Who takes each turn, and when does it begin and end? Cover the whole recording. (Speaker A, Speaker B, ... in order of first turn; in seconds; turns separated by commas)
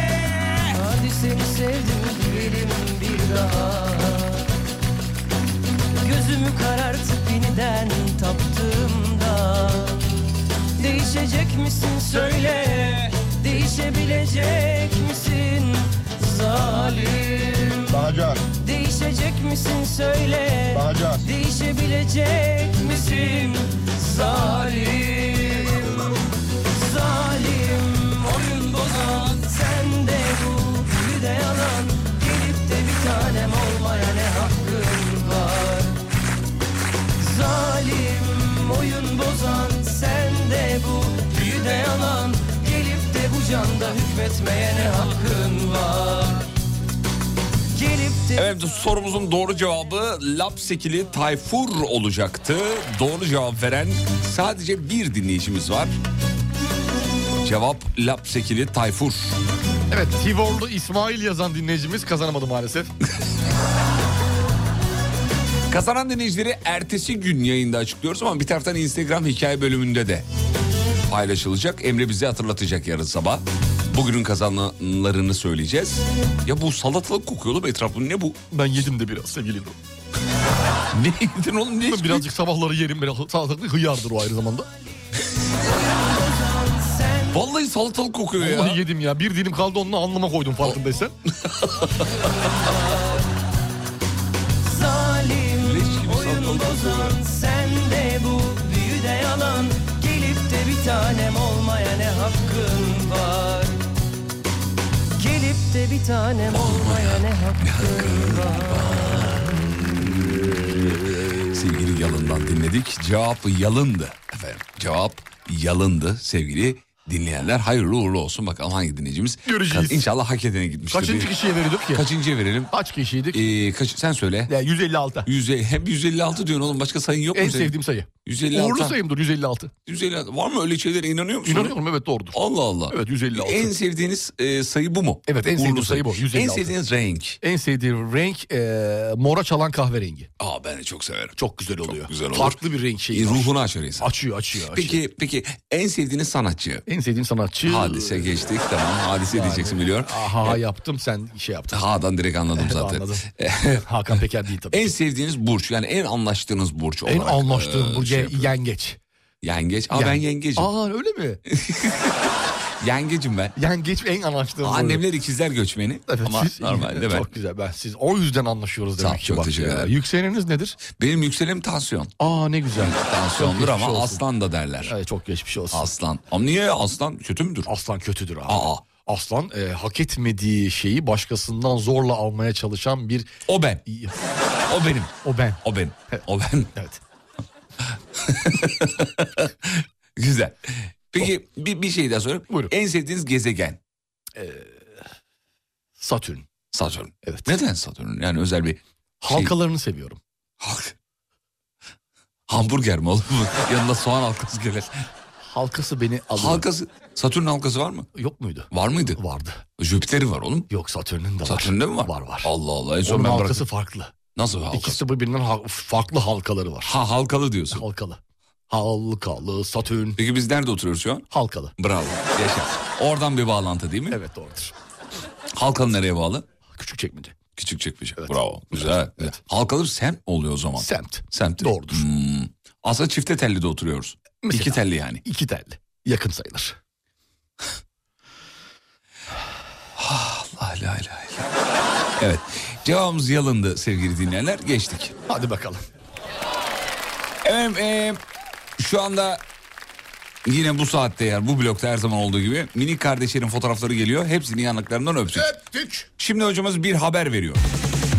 Speaker A: 0.7-4.4, Speaker A: 6.0-10.0, Speaker A: 10.8-25.9, Speaker A: 26.8-35.9, Speaker A: 37.2-46.5, Speaker A: 47.7-48.5, Speaker B: 48.3-55.9, Speaker B: 57.4-59.4, Speaker C: 59.9-62.9, Speaker B: 65.7-70.2, Speaker B: 71.0-78.4, Speaker C: 78.5-79.8, Speaker B: 80.9-82.3, Speaker C: 81.9-84.7, Speaker A: 85.7-87.4, Speaker B: 87.3-88.8, Speaker C: 88.4-91.2, Speaker B: 91.4-92.1, Speaker A: 92.6-93.2, Speaker A: 94.6-103.8, Speaker B: 95.6-97.2, Speaker A: 105.2-108.5, Speaker B: 106.5-121.3, Speaker C: 119.5-120.0, Speaker C: 120.9-122.0, Speaker B: 121.9-122.7, Speaker C: 122.7-123.4, Speaker B: 123.3-124.5, Speaker C: 124.5-125.3, Speaker B: 125.2-129.0, Speaker C: 127.3-129.7, Speaker B: 129.8-131.8, Speaker C: 131.4-133.7, Speaker B: 132.3-137.4, Speaker C: 135.3-136.7, Speaker C: 137.4-140.3, Speaker B: 140.4-142.6, Speaker C: 141.4-145.0, Speaker B: 143.1-144.1, Speaker B: 144.7-146.8, Speaker C: 146.9-148.3, Speaker B: 147.6-150.6, Speaker C: 149.3-151.8, Speaker B: 151.7-153.8, Speaker C: 152.5-153.2, Speaker C: 153.8-154.9, Speaker B: 154.7-158.5, Speaker C: 157.1-159.0, Speaker B: 159.4-160.7, Speaker C: 159.9-161.4, Speaker B: 161.5-163.5, Speaker C: 163.6-165.0, Speaker B: 164.6-167.3, Speaker C: 166.1-170.8, Speaker B: 169.0-169.9, Speaker B: 170.9-172.1, Speaker C: 172.2-174.2, Speaker B: 172.7-174.9, Speaker C: 174.8-175.8, Speaker B: 175.7-177.7, Speaker C: 177.7-183.3, Speaker B: 178.5-178.8, Speaker B: 183.5-183.8, Speaker C: 183.9-184.1, Speaker B: 184.7-186.7, Speaker C: 185.2-185.6, Speaker B: 188.2-193.8, Speaker C: 194.4-194.9, Speaker C: 196.0-196.4, Speaker B: 196.7-199.5, Speaker C: 197.2-197.5, Speaker C: 199.2-200.2, Speaker B: 200.6-200.9, Speaker B: 202.5-204.9, Speaker C: 205.5-206.7, Speaker B: 206.3-208.1, Speaker C: 208.1-209.6, Speaker B: 208.7-209.2, Speaker B: 209.8-210.7, Speaker C: 210.7-212.5, Speaker B: 211.4-213.7, Speaker C: 213.0-214.1, Speaker B: 214.3-215.0, Speaker C: 214.7-216.9, Speaker B: 216.8-217.8, Speaker C: 217.7-218.2, Speaker C: 218.7-220.2, Speaker B: 220.2-221.2, Speaker C: 221.3-221.7, Speaker B: 221.8-224.2, Speaker C: 224.1-224.7, Speaker B: 225.5-226.4, Speaker C: 226.7-227.4, Speaker B: 227.6-235.2, Speaker C: 228.2-229.3, Speaker C: 230.8-232.0, Speaker C: 234.4-236.8, Speaker B: 239.9-241.5, Speaker B: 242.2-245.1, Speaker C: 245.3-245.8, Speaker B: 247.4-248.2, Speaker B: 248.8-249.4, Speaker B: 250.4-255.5, Speaker C: 255.4-256.1, Speaker B: 256.2-257.6